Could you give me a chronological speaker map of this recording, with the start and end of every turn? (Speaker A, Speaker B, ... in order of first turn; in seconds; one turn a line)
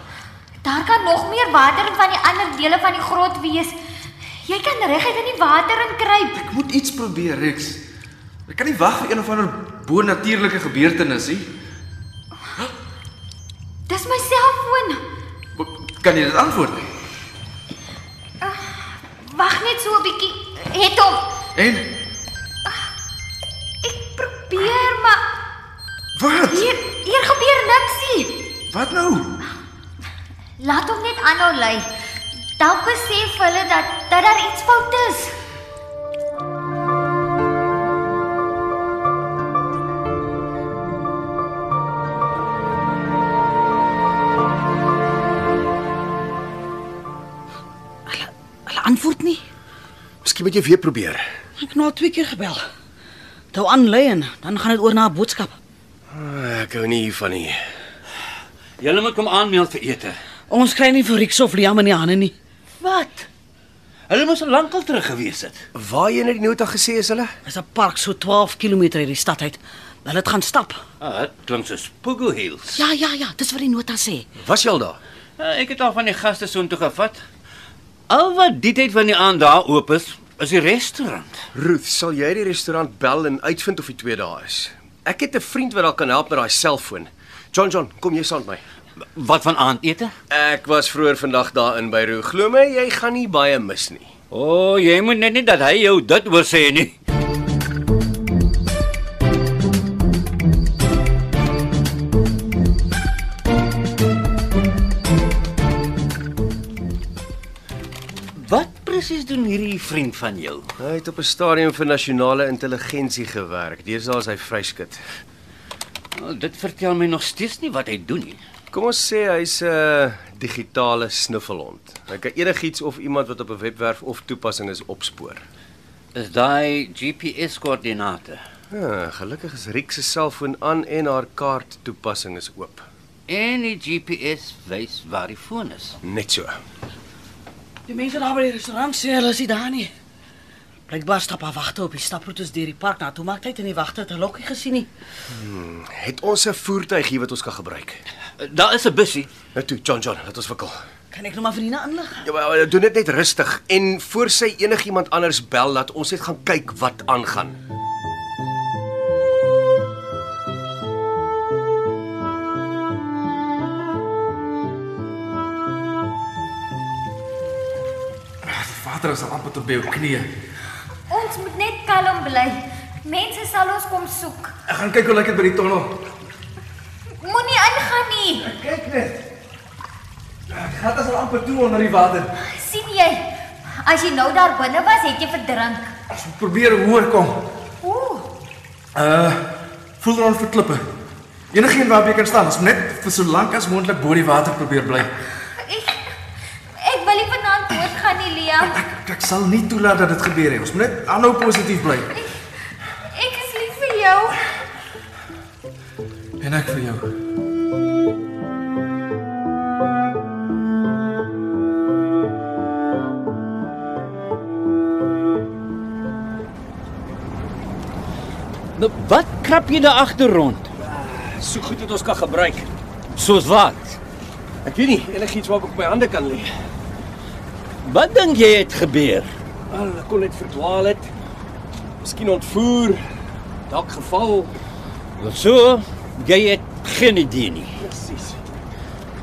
Speaker A: 0.6-3.8
Speaker A: 4.4-6.4
Speaker B: 6.3-7.8
Speaker B: 8.5-11.5
Speaker A: 13.9-15.0
Speaker B: 15.6-16.9
Speaker A: 18.4-21.3
Speaker B: 21.5-21.9
Speaker A: 23.8-25.2
Speaker B: 26.1-26.6
Speaker A: 26.5-28.4
Speaker B: 28.7-29.3
Speaker A: 30.6-31.9
Speaker A: 32.6-35.4
Speaker C: 48.1-49.4
Speaker D: 50.2-51.2
Speaker C: 51.6-52.6
Speaker C: 53.5-55.5
Speaker D: 56.1-57.6
Speaker E: 58.8-60.1
Speaker C: 60.5-62.3
Speaker E: 62.8-63.3
Speaker E: 64.1-65.6
Speaker D: 65.7-67.3
Speaker C: 67.5-70.8
Speaker E: 71.0-72.8
Speaker C: 72.8-74.3
Speaker D: 74.4-75.0
Speaker E: 75.4-77.2
Speaker E: 78.1-81.3
Speaker D: 81.5-88.6
Speaker E: 89.1-90.1
Speaker D: 90.3-94.1
Speaker E: 94.3-96.9
Speaker E: 108.3-110.7
Speaker D: 110.8-115.0
Speaker E: 116.2-118.4
Speaker D: 118.7-125.4
Speaker E: 126.1-128.4
Speaker D: 128.7-132.9
Speaker E: 133.3-136.0
Speaker D: 136.0-136.6
Speaker C: 137.9-139.9
Speaker C: 140.9-144.9
Speaker D: 145.3-148.0
Speaker E: 148.4-149.3
Speaker D: 149.5-150.8
Speaker C: 151.1-152.2
Speaker D: 152.2-157.6
Speaker B: 168.4-170.3
Speaker A: 171.1-174.5
Speaker B: 174.7-176.0
Speaker A: 177.2-178.5
Speaker B: 178.4-179.2
Speaker B: 180.5-182.3
Speaker A: 182.4-185.9
Speaker B: 186.1-187.4
Speaker A: 187.8-188.3
Speaker B: 188.9-189.5
Speaker B: 190.0-190.8
Speaker B: 191.5-195.1
Speaker A: 195.5-196.1
Speaker A: 196.8-198.7
Speaker B: 198.6-202.1
Speaker A: 203.1-204.4
Speaker B: 206.4-207.1
Speaker E: 218.8-220.7
Speaker D: 220.8-222.7
Speaker E: 223.2-224.0
Speaker D: 224.6-226.5
Speaker E: 227.8-229.3
Speaker D: 229.7-231.1
Speaker D: 232.0-233.0
Speaker D: 233.7-234.5
Speaker E: 235.2-237.8
Speaker D: 237.8-238.4